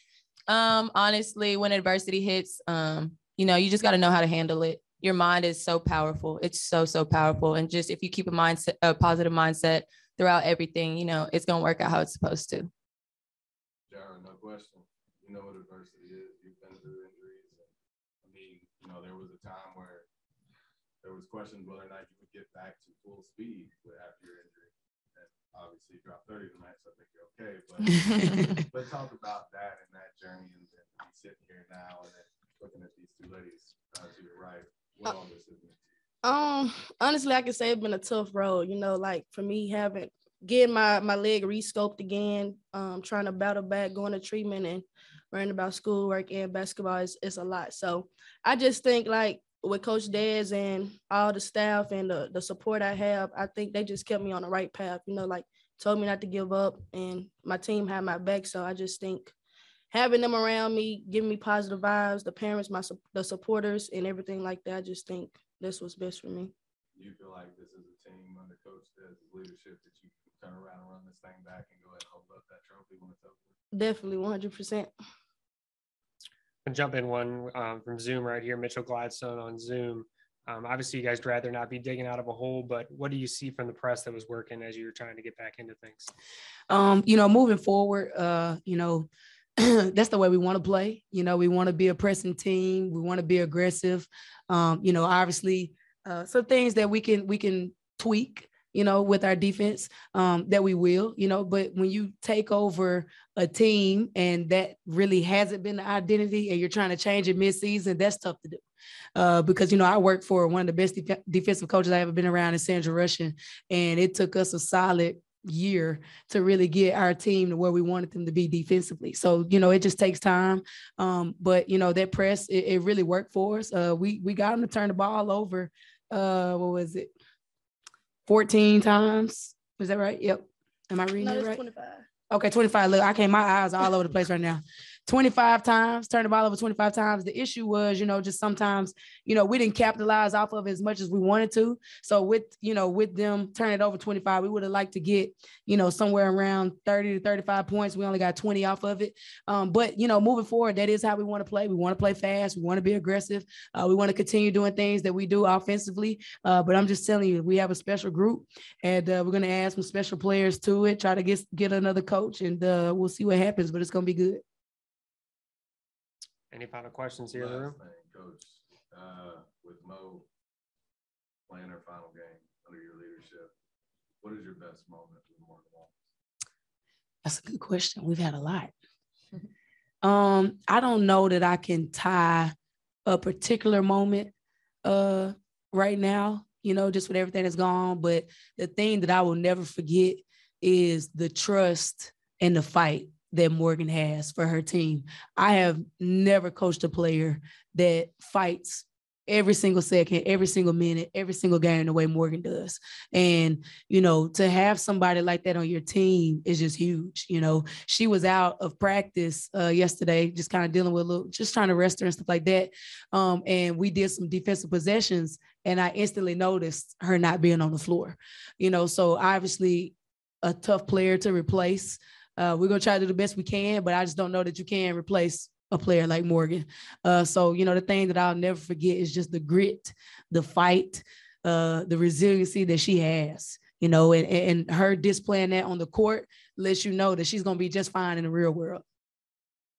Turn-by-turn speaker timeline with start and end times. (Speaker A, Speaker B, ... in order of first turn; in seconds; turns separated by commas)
Speaker A: 0.5-12.7, Speaker B: 13.9-17.7, Speaker B: 18.2-20.1, Speaker B: 21.0-35.9, Speaker C: 36.2-59.3, Speaker C: 59.9-66.5, Speaker B: 66.9-73.5, Speaker C: 73.7-74.9, Speaker D: 76.6-86.1, Speaker E: 86.7-108.6, Speaker E: 109.2-127.1, Speaker E: 128.3-131.6, Speaker C: 131.2-132.1, Speaker E: 132.3-164.4, Speaker D: 166.5-167.8, Speaker B: 167.3-170.3, Speaker B: 171.5-173.5, Speaker B: 174.2-176.0, Speaker E: 177.2-178.7, Speaker E: 180.0-182.5, Speaker E: 183.1-184.3, Speaker E: 184.8-238.8